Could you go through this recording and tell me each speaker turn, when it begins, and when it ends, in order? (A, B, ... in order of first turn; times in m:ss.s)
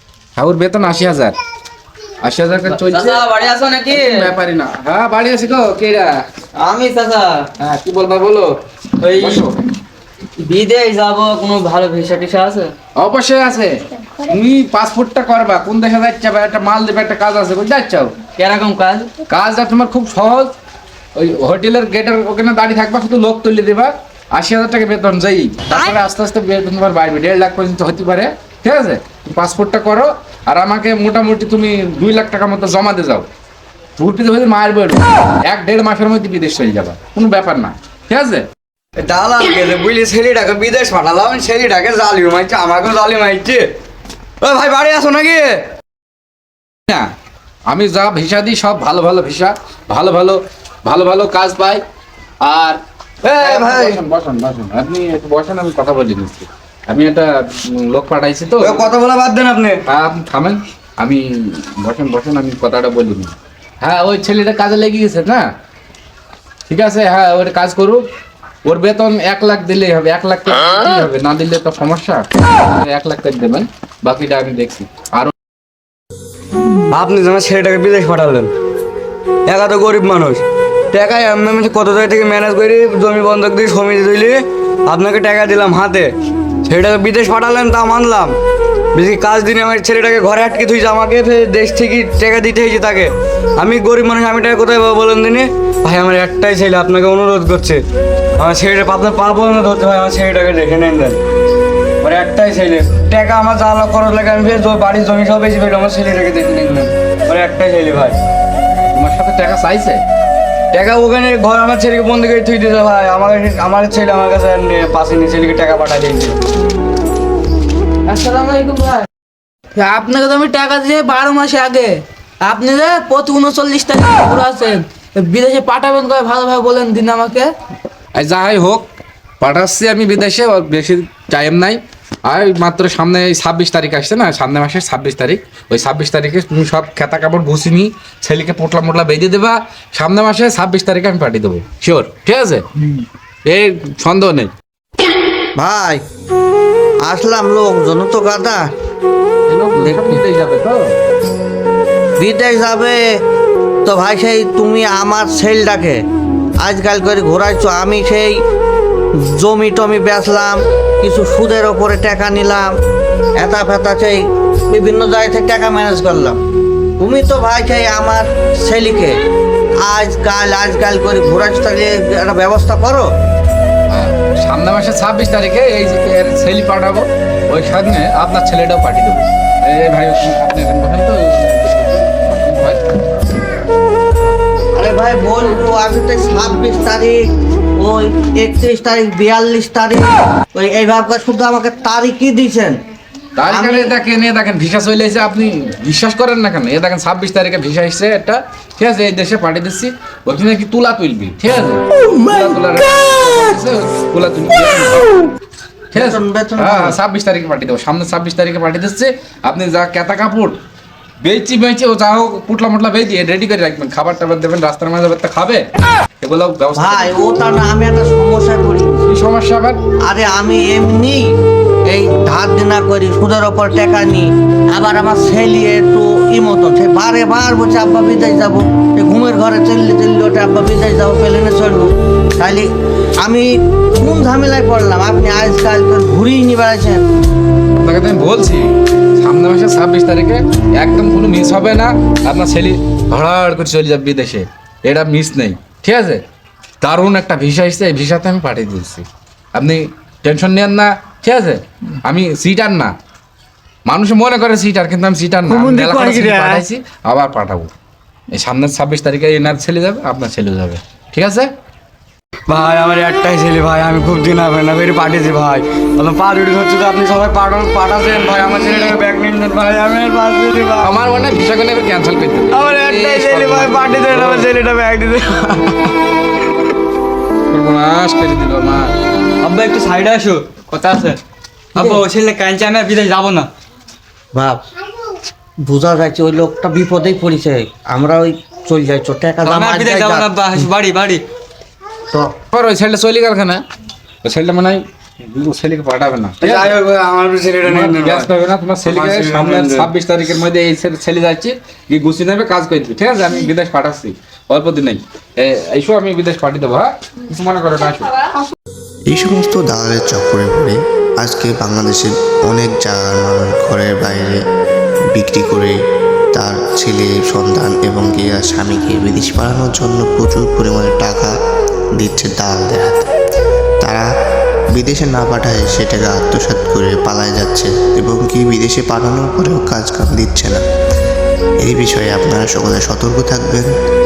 0:00.4-0:01.4 A
0:02.2-0:03.3 A
0:03.9-0:06.2 A
0:07.6-0:09.6 A
0:10.5-0:12.4 B
0:13.0-0:18.2 A
0:18.4-0:19.1 C
0:19.3-0:20.5 A
0:21.2-0:33.3 A
0:34.0-0:38.5 A
0:39.0-0:43.7 B
0:44.4-0:45.7 B
0:47.7-0:51.8 A
0:52.4-0:52.8 A
0:53.2-0:54.0 B
0:53.4-0:58.9 A
0:58.6-0:59.8 B
0:59.9-1:05.5 A
1:06.7-1:08.0 A
1:08.6-1:15.3 A
1:16.9-1:18.5 B
1:19.5-1:26.1 B
1:26.6-1:28.4 B
1:28.9-1:37.8 B
1:38.4-1:41.2 B
1:42.0-1:48.2 B
1:48.8-1:50.0 A
1:50.7-1:56.4 B
1:58.1-1:59.1 D
1:59.8-2:07.5 D
2:08.2-2:08.8 A
2:09.4-2:22.7 A
2:23.5-2:24.5 A
2:25.6-2:26.0 E
2:27.0-2:28.7 E
2:29.5-2:31.0 A
2:29.8-2:30.2 E
2:32.2-2:33.2 E
2:33.8-2:36.0 E
2:36.6-2:38.4 E
2:39.2-2:42.7 E
2:43.4-2:46.4 E
2:47.0-2:49.2 E
2:49.8-2:53.1 E
2:53.9-3:02.8 A
3:04.8-3:07.2 E
3:07.8-3:12.8 E
3:13.4-3:25.1 A
3:13.5-3:14.0 E
3:25.9-3:30.6 A
3:25.9-3:27.0 E
3:31.2-3:35.7 A
3:36.2-3:37.2 A
3:36.8-3:39.0 E
3:39.0-3:39.8 A
3:40.0-3:41.3 E
3:41.9-3:52.7 E
3:53.2-3:57.0 E
3:57.8-4:06.2 A
4:06.8-4:12.9 A
4:13.9-4:17.7 A
4:16.1-4:16.4 B
4:18.3-4:21.5 A
4:22.5-4:30.9 B
4:30.8-4:34.5 A
4:32.5-4:36.0 B
4:37.5-4:38.9 A
4:39.4-4:41.2 C
4:41.8-4:42.0 E
4:41.8-4:43.5 C
4:44.3-4:44.6 E
4:45.6-4:50.7 E
4:49.5-4:51.2 C
4:52.5-4:53.6 A
4:54.2-4:56.8 A
4:56.4-4:58.3 B
4:57.6-5:08.1 A
4:58.9-4:59.9 B
5:09.1-5:14.4 F
5:15.1-5:15.8 F
5:16.3-5:21.4 F
5:22.0-5:23.1 F
5:23.8-5:24.1 F
5:24.7-5:30.6 F
5:31.6-5:33.7 F